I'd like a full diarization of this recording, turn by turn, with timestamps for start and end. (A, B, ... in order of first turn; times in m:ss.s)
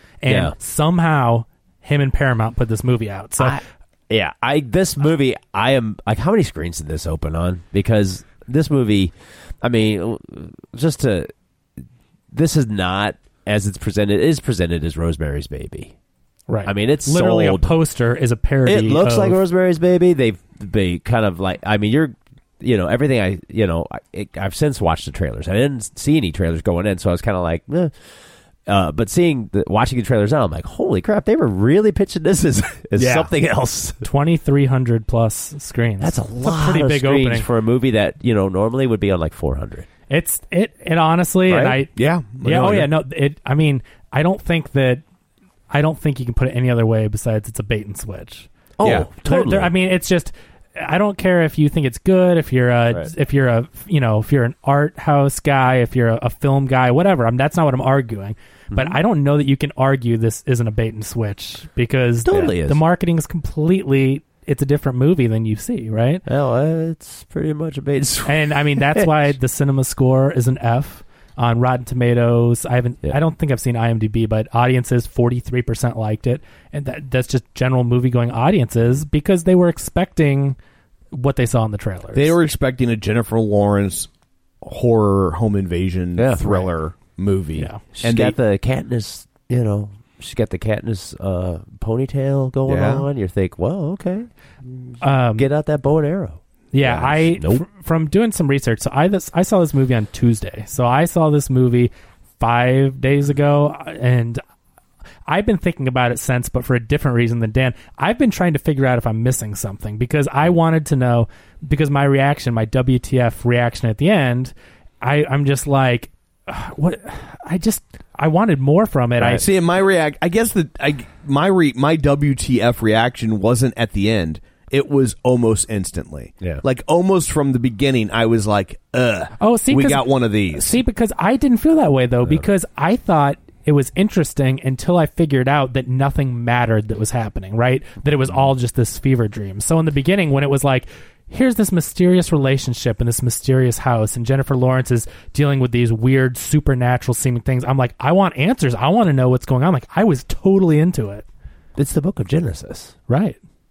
0:00.2-0:03.6 A
0:00.3-0:00.5 B
0:03.4-0:11.3 B
0:12.3-0:15.9 B
0:16.5-0:19.4 A
0:16.6-0:17.8 B
0:18.6-0:28.1 B
0:28.7-0:34.0 B
0:32.9-0:33.3 C
0:34.0-0:37.4 A
0:36.0-0:39.9 B
0:40.1-0:41.9 A
0:41.5-0:41.8 B
0:42.0-0:42.8 C
0:42.4-0:45.0 A
0:42.5-0:42.8 B
0:45.7-0:48.5 A
0:48.8-0:49.1 C
0:48.8-0:49.7 B
0:49.2-1:06.2 A
0:58.7-0:59.0 B
1:02.2-1:02.8 B
1:06.2-1:09.3 B
1:08.2-1:20.6 A
1:21.1-1:22.3 A
1:22.1-1:24.1 C
1:24.6-1:28.4 C
1:26.2-1:26.4 B
1:27.9-1:37.6 B
1:32.7-1:33.1 C
1:35.0-1:35.5 A
1:36.7-1:44.4 A
1:45.3-1:59.4 A
1:59.2-2:10.8 C
2:09.4-2:31.2 A
2:31.8-2:32.9 B
2:33.1-2:33.4 A